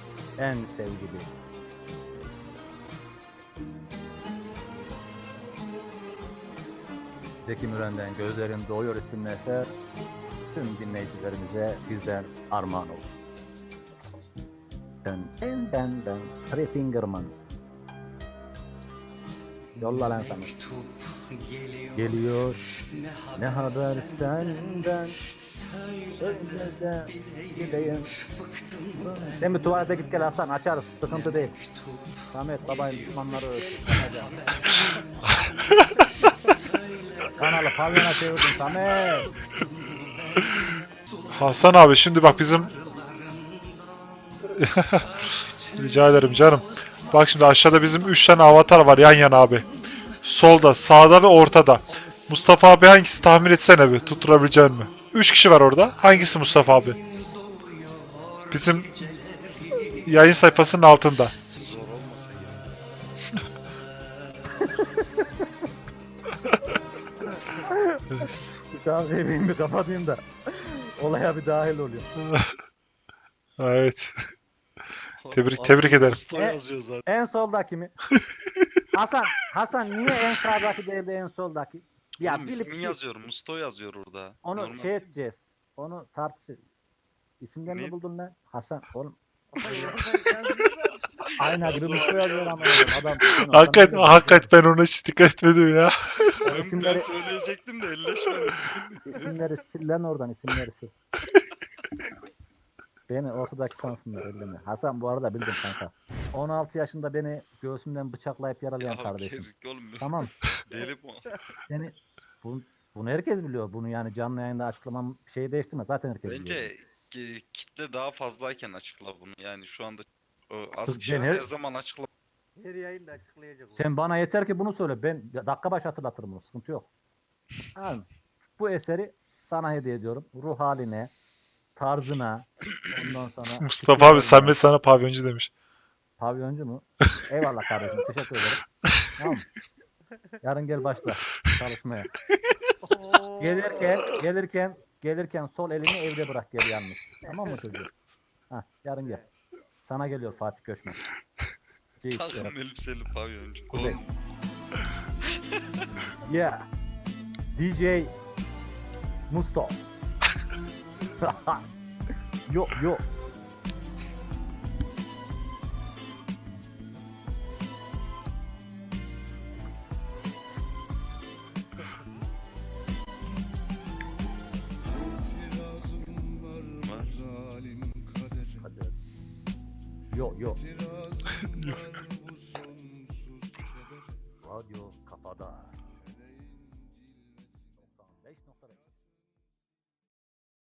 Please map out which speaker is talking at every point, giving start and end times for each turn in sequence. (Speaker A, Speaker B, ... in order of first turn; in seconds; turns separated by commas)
Speaker A: 0.4-1.3, Speaker A: 7.5-9.7, Speaker A: 10.5-13.1, Speaker A: 15.0-17.4, Speaker A: 19.8-20.5, Speaker B: 19.8-22.1, Speaker A: 21.9-22.6, Speaker B: 22.9-24.9, Speaker A: 23.4-25.2, Speaker B: 25.4-30.0, Speaker A: 26.2-28.1, Speaker A: 29.2-31.6, Speaker B: 31.1-37.8, Speaker A: 32.3-34.4, Speaker C: 35.3-35.8, Speaker A: 37.4-39.3, Speaker B: 38.4-40.4, Speaker C: 41.3-42.7, Speaker B: 42.8-43.1, Speaker C: 44.6-45.1, Speaker B: 45.2-45.8, Speaker C: 45.7-49.7, Speaker C: 50.2-57.0, Speaker B: 57.0-60.1, Speaker C: 58.5-58.9, Speaker C: 60.0-61.4, Speaker D: 61.6-62.7, Speaker A: 64.6-65.0, Speaker A: 67.5-68.0, Speaker C: 68.1-68.6, Speaker A: 68.7-72.1, Speaker C: 72.2-72.5, Speaker C: 73.6-74.1, Speaker D: 75.2-77.0, Speaker C: 75.3-76.2, Speaker A: 76.3-77.9, Speaker A: 78.9-83.0, Speaker D: 82.2-85.1, Speaker A: 84.5-86.6, Speaker A: 87.4-89.2, Speaker D: 87.7-87.9, Speaker E: 89.6-90.9, Speaker D: 89.6-90.6, Speaker D: 91.3-92.8, Speaker A: 91.4-94.5, Speaker C: 93.4-96.5, Speaker A: 96.4-97.1, Speaker D: 96.5-99.3, Speaker A: 99.1-100.9, Speaker A: 103.1-109.5, Speaker D: 108.8-111.3, Speaker A: 110.0-110.3, Speaker A: 111.7-116.7, Speaker D: 116.2-122.1, Speaker A: 120.8-121.5, Speaker E: 122.6-124.0, Speaker A: 123.8-126.9, Speaker A: 127.8-128.1, Speaker A: 128.6-131.1, Speaker A: 131.8-134.6, Speaker C: 133.6-135.5, Speaker A: 136.2-138.6, Speaker A: 139.2-139.5, Speaker A: 140.4-142.1, Speaker E: 142.8-144.1, Speaker A: 143.4-147.9, Speaker A: 148.5-149.2, Speaker A: 149.8-151.0, Speaker A: 152.0-152.5, Speaker D: 152.1-154.1, Speaker A: 153.7-154.0, Speaker A: 156.3-156.7, Speaker A: 157.6-158.1, Speaker A: 159.3-159.8, Speaker A: 161.2-161.6, Speaker A: 162.5-163.0, Speaker D: 176.8-177.4, Speaker A: 178.6-178.9, Speaker A: 180.1-180.7, Speaker C: 181.4-182.1, Speaker A: 184.4-185.7, Speaker A: 187.8-188.9